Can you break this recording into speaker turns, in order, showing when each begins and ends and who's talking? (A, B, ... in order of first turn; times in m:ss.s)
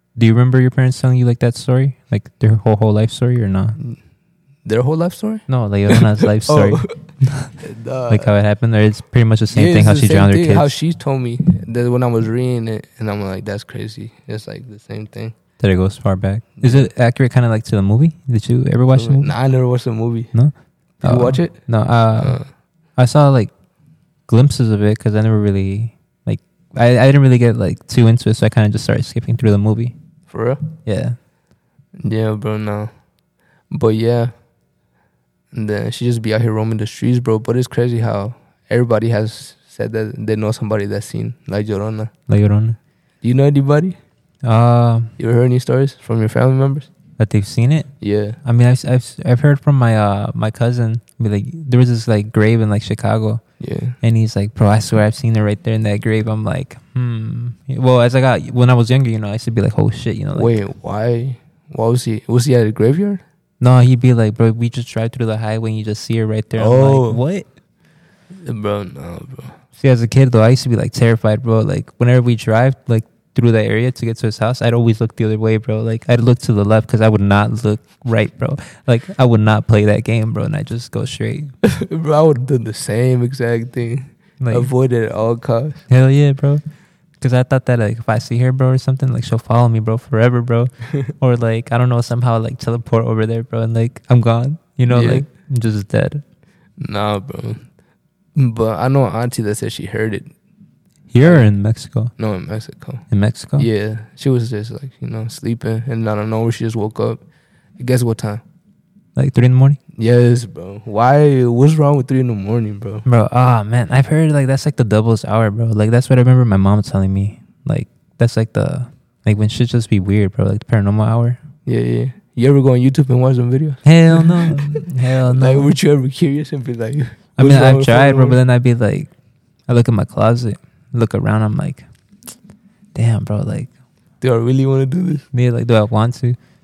0:00.2-0:03.8 A
0:04.6-0:07.0 B
0:05.5-0:07.6 A
0:07.6-0:08.3 B
0:08.1-0:10.7 A
0:09.5-0:15.4 B
0:15.6-0:19.3 A
0:16.6-0:16.9 B
0:18.9-0:20.4 B
0:20.3-0:22.4 A
0:21.0-0:21.6 B
0:22.2-0:22.5 B
0:23.0-0:23.5 A
0:24.3-0:30.0 A
0:30.3-0:30.6 B
0:30.8-0:31.2 A
0:32.0-0:32.9 B
0:33.7-0:34.3 B
0:35.5-0:42.1 B
0:42.3-0:42.8 A
0:43.2-0:44.0 B
0:44.4-0:45.1 A
0:45.2-0:46.9 B
0:47.2-0:47.9 A
0:48.0-0:48.4 B
0:48.4-0:53.4 A
0:53.6-0:54.0 B
0:54.0-1:00.6 A
1:00.3-1:03.2 B
1:03.6-1:07.5 A
1:06.6-1:07.2 B
1:08.4-1:09.6 B
1:09.8-1:21.5 A
1:21.6-1:25.9 B
1:24.4-1:24.7 A
1:25.9-1:26.6 A
1:27.2-1:36.2 A
1:34.9-1:35.3 B
1:36.8-1:37.7 B
1:38.4-1:40.3 B
1:41.1-1:42.1 A
1:42.2-1:43.1 B
1:43.1-1:43.7 A
1:43.6-1:47.2 B
1:47.8-1:48.4 B
1:49.2-1:49.8 A
1:50.0-1:53.1 B
1:53.1-2:01.4 A
2:01.7-2:08.4 B
2:03.8-2:05.7 A
2:07.4-2:09.1 A
2:09.7-2:11.9 A
2:13.0-2:13.7 A
2:14.2-2:15.3 B
2:15.3-2:16.4 A